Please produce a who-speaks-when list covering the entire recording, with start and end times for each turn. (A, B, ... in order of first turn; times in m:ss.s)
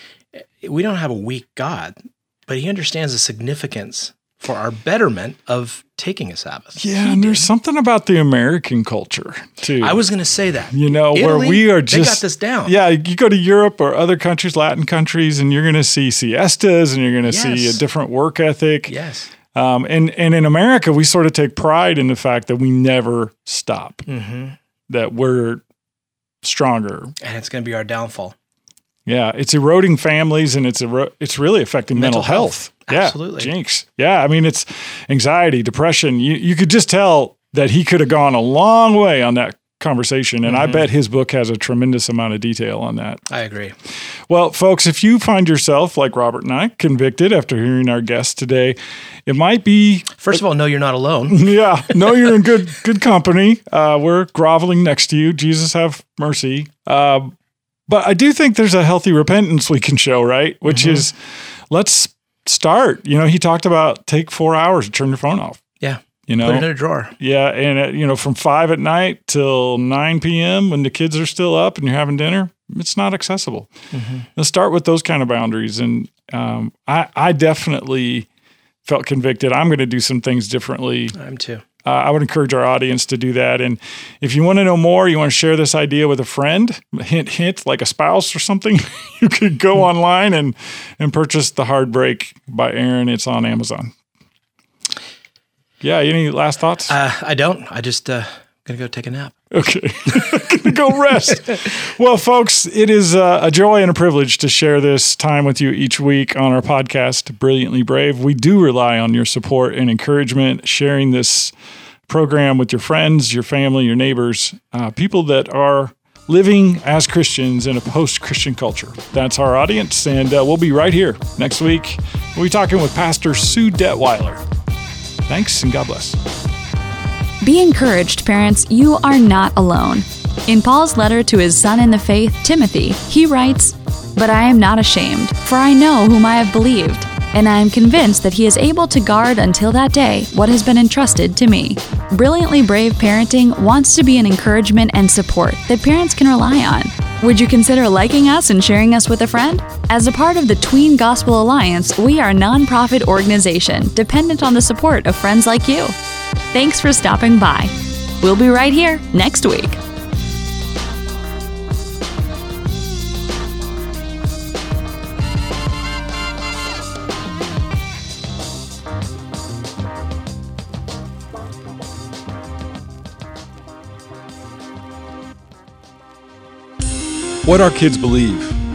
0:00.6-0:07.5 A
0:06.8-0:10.0 B
0:09.8-0:12.8 A
0:10.7-0:18.9 B
0:17.2-0:17.8 A
0:18.9-0:19.3 A
0:19.5-0:24.1 B
0:24.1-0:24.6 A
0:24.9-0:25.6 B
0:26.4-0:27.1 B
0:27.2-0:28.4 A
0:29.1-0:43.2 B
0:32.0-0:33.5 A
0:40.4-0:40.9 A
0:43.3-0:43.8 A
0:44.3-0:50.2 B
0:50.2-0:52.2 A
0:51.3-0:57.3 B
0:57.9-1:01.2 B
1:00.7-1:01.1 A
1:01.7-1:05.6 B
1:05.8-1:07.1 A
1:06.3-1:06.7 B
1:07.2-1:13.7 B
1:13.9-1:14.3 A
1:14.4-1:18.3 B
1:18.8-1:21.2 B
1:21.1-1:21.6 A
1:21.8-1:33.9 B
1:35.8-1:36.9 B
1:36.9-1:39.4 A
1:39.5-1:51.5 B
1:52.1-2:04.4 B
2:05.3-2:06.2 B
2:07.4-2:36.0 C
2:36.5-2:39.8 C
2:57.4-2:58.6 B